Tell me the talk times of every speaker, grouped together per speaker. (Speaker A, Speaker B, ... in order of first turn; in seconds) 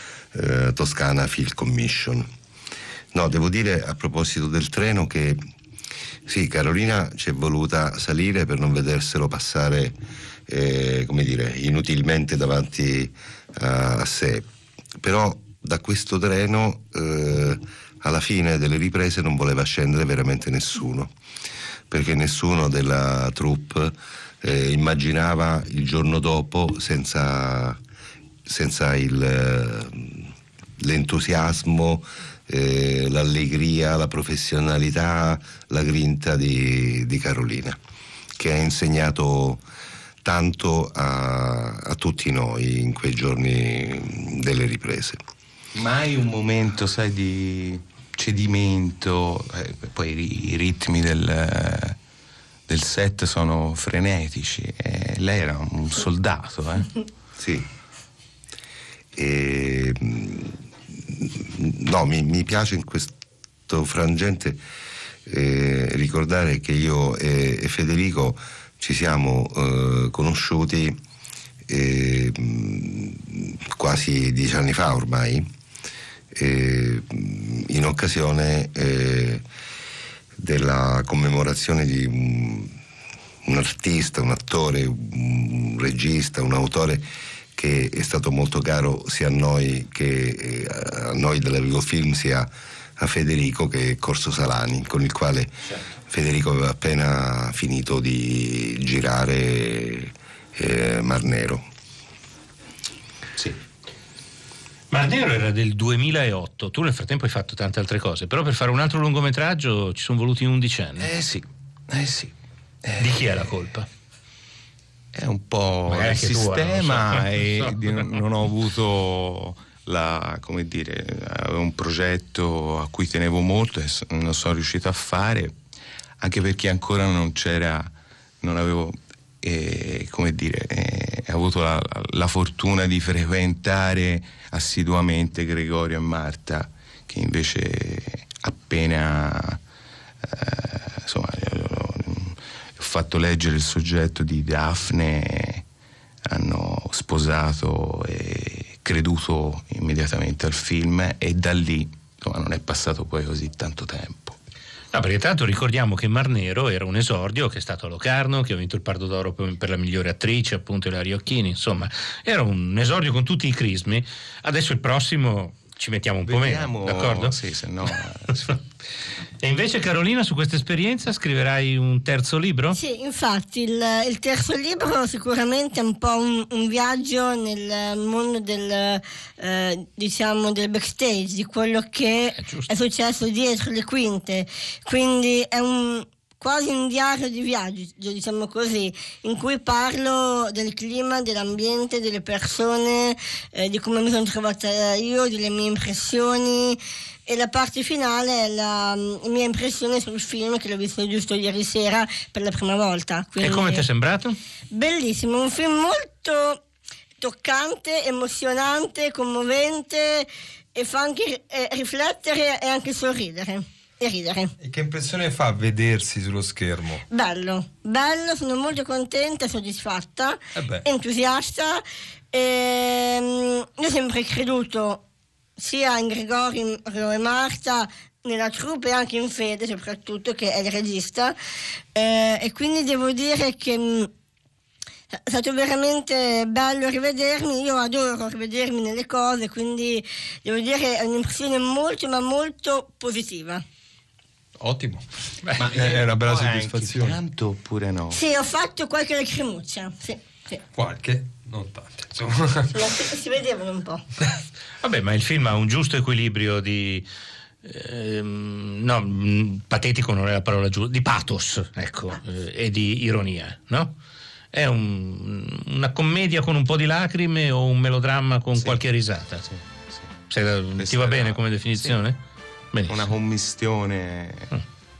Speaker A: 0.3-2.3, 3.1-5.4, 6.2-10.0, 10.5-14.5, 15.0-21.1, 21.9-27.8, 28.5-37.8, 38.4-39.6, 40.2-45.2, 57.4-57.6, 59.1-63.2, 63.7-64.6, 65.3-71.0, 71.7-75.5, 76.3-79.4, 80.4-82.8, 83.4-87.0, 87.5-101.6
Speaker B: 45.7-52.0, 52.7-56.9, 111.0-113.5, 115.1-125.5, 126.2-139.6, 140.2-145.6, 146.3-154.4, 166.2-168.6, 245.6-248.2, 268.6-268.8, 269.4-270.1, 270.8-272.1, 272.9-274.5
Speaker C: 104.9-111.1, 113.0-113.9, 115.9-118.1, 154.9-168.0, 169.4-172.8, 182.3-182.7, 203.4-204.4, 254.8-257.1, 257.6-263.9, 264.5-269.5, 270.3-272.2, 272.7-273.1
Speaker D: 172.7-203.8, 204.7-206.6, 207.2-214.5, 217.1-221.8, 222.3-225.0, 225.6-231.3, 231.9-234.1, 235.3-243.6, 248.1-250.6, 252.7-254.0
Speaker E: 214.6-217.0, 220.6-220.8, 244.6-245.0, 245.7-247.2, 250.8-252.7